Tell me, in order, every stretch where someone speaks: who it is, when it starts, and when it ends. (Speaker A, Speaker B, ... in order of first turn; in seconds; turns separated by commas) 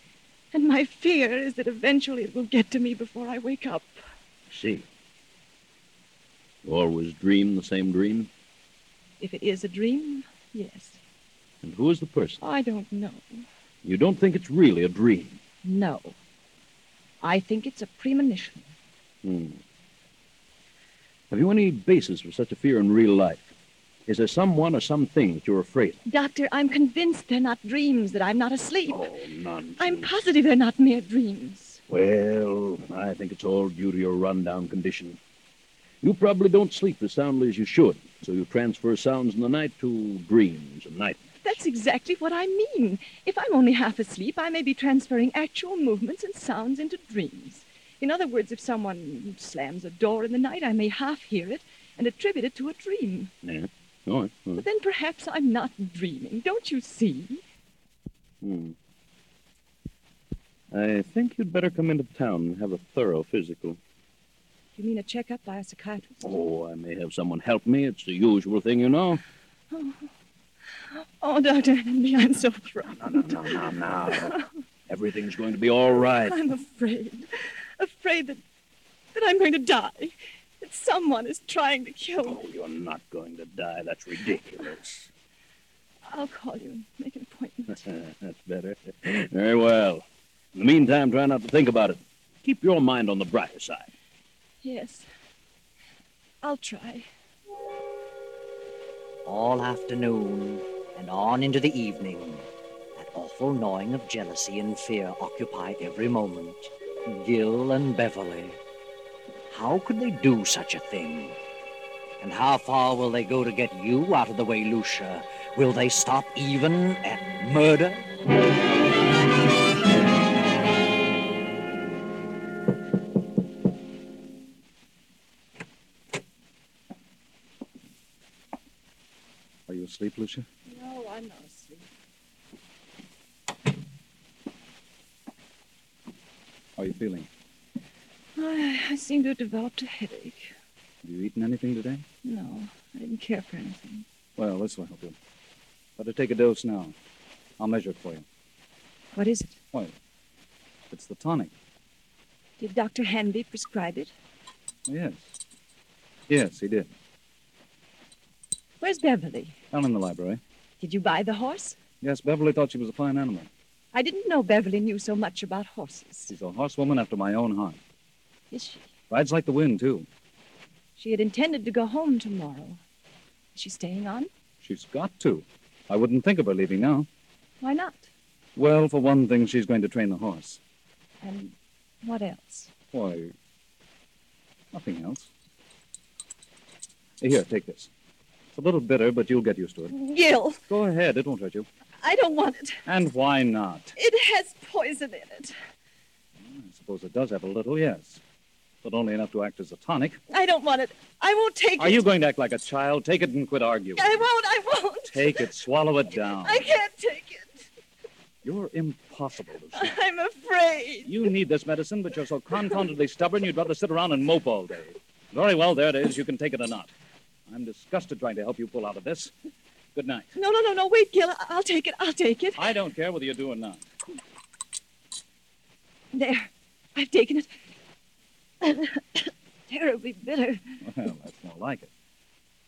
Speaker A: 0.5-4.0, Speaker B: 4.5-4.8, Speaker B: 6.6-8.3, Speaker A: 9.2-11.0, Speaker B: 11.6-12.4, Speaker A: 12.4-13.4, Speaker B: 13.8-15.4, Speaker A: 15.6-16.1, Speaker A: 17.2-18.7, Speaker B: 19.2-19.6, Speaker B: 21.3-23.5, Speaker B: 24.1-26.0, Speaker A: 26.1-29.1, Speaker B: 28.9-30.1, Speaker A: 29.8-31.8, Speaker B: 31.9-35.2, Speaker B: 36.0-41.3, Speaker A: 41.4-53.3, Speaker B: 53.4-54.6, Speaker A: 54.5-57.4, Speaker B: 58.4-58.8, Speaker B: 60.7-63.8, Speaker A: 64.8-66.3, Speaker B: 66.2-69.2, Speaker A: 69.7-70.1, Speaker A: 70.9-73.6, Speaker B: 73.0-74.4, Speaker A: 74.1-74.4, Speaker B: 74.9-76.4, Speaker A: 76.0-78.4, Speaker A: 79.1-82.4, Speaker B: 82.2-85.1, Speaker A: 86.1-87.9, Speaker B: 87.8-93.9, Speaker A: 94.6-95.1, Speaker A: 96.4-97.1, Speaker C: 99.2-108.6, Speaker C: 109.5-111.3, Speaker C: 112.2-118.1, Speaker D: 129.7-130.5, Speaker A: 130.7-131.8, Speaker D: 136.8-137.3, Speaker A: 138.3-140.5, Speaker D: 141.0-142.0, Speaker A: 142.2-144.0, Speaker D: 144.3-145.2, Speaker D: 146.0-146.9, Speaker D: 147.6-148.2, Speaker A: 149.1-149.6, Speaker D: 150.9-151.5, Speaker A: 152.6-154.1, Speaker D: 154.9-155.3, Speaker D: 156.3-156.9, Speaker A: 158.8-159.6, Speaker D: 159.7-160.4, Speaker A: 160.8-161.8, Speaker D: 162.0-163.5, Speaker A: 163.9-166.3, Speaker D: 166.3-167.8, Speaker A: 168.5-168.8, Speaker D: 169.1-170.1, Speaker A: 170.9-172.8, Speaker A: 173.5-174.3, Speaker D: 174.6-177.1, Speaker A: 177.6-178.1, Speaker D: 178.6-180.6, Speaker A: 181.2-182.7, Speaker D: 182.9-183.3, Speaker D: 184.7-185.3, Speaker D: 187.2-187.9, Speaker D: 188.5-189.9, Speaker A: 189.9-190.6, Speaker D: 190.7-191.7, Speaker A: 192.0-192.8, Speaker D: 192.8-193.9, Speaker A: 193.9-195.5, Speaker D: 196.4-198.2, Speaker D: 198.8-200.2, Speaker A: 200.3-202.0, Speaker D: 201.8-204.2, Speaker A: 203.9-205.5, Speaker D: 205.1-206.7, Speaker A: 206.2-207.7, Speaker D: 208.4-209.9, Speaker A: 209.7-211.1, Speaker D: 211.0-216.9, Speaker D: 217.5-219.3, Speaker D: 219.9-220.3, Speaker A: 220.3-222.7, Speaker D: 222.6-223.8, Speaker A: 226.1-227.6, Speaker A: 228.6-230.6, Speaker D: 230.8-231.9